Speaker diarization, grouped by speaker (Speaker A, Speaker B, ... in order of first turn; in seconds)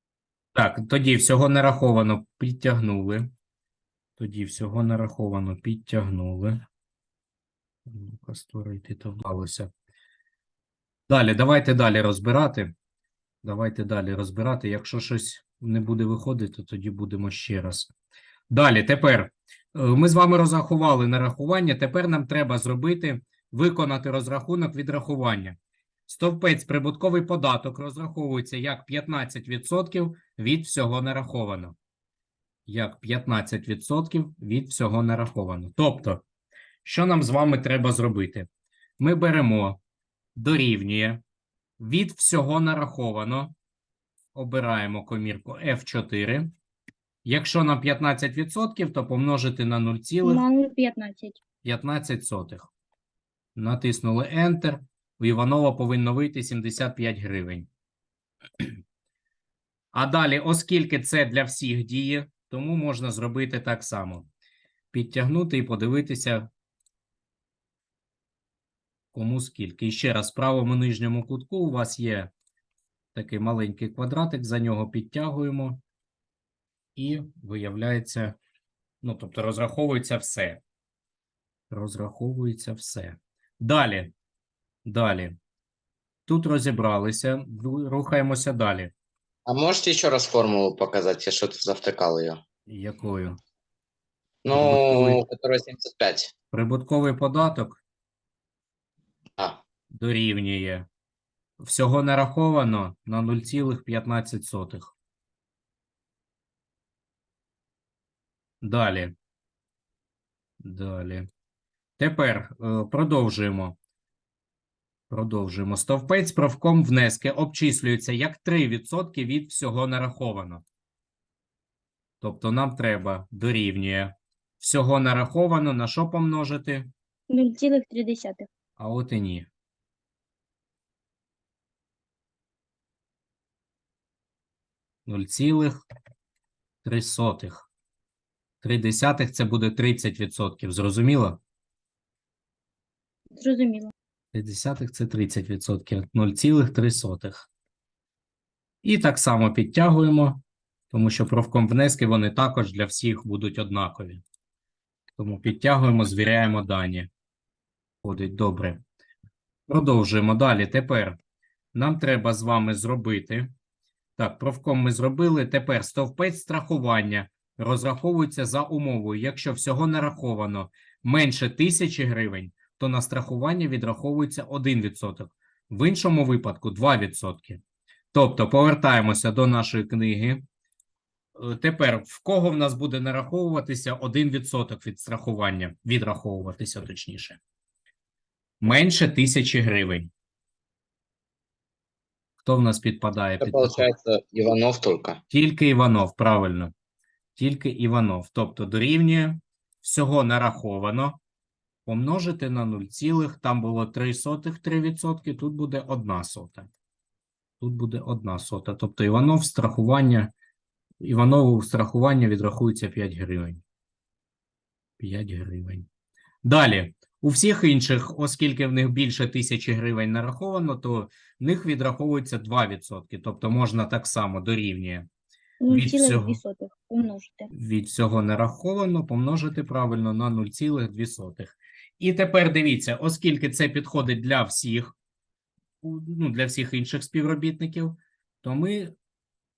Speaker A: 0.6-3.3, 4.2-6.7, 7.9-9.7, 11.1-12.7, 13.4-17.9, 18.5-31.8, 32.7-36.2, 36.9-38.5, 39.0-39.8, 40.4-41.2, 41.8-43.5, 44.3-46.5, 47.2-50.4, 51.6-52.7, 53.6-57.7, 59.9-64.3, 64.9-66.5, 69.1-72.3, 73.1-75.8, 77.0-78.4, 79.0-80.6, 81.7-84.1, 84.8-85.4, 86.3-88.9, 92.7-93.4, 94.5-95.2, 96.5-97.8, 99.9-100.9, 101.6-104.9, 108.6-109.1, 110.6-111.3, 112.0-113.8, 115.1-120.6, 122.2-126.9, 128.8-129.5, 135.1-135.8, 136.8-137.7, 138.6-141.4, 144.3-147.5, 148.8-154.2, 155.2-157.1, 158.0-158.8, 159.7-161.2, 161.7-163.5, 164.2-177.6, 178.1-180.4, 181.4-187.4, 188.6-190.1, 192.4-193.9, 195.3-196.7, 197.4-201.2, 201.9-206.7, 207.6-210.3, 211.0-213.6, 215.0-215.9, 216.4-225.1, 225.7-226.4, 227.5-234.9, 235.8-238.9
Speaker B: 50.2-51.4, 127.3-128.5, 143.3-143.9, 225.6-227.5
Speaker C: 89.5-92.4, 94.5-96.3, 193.4-195.2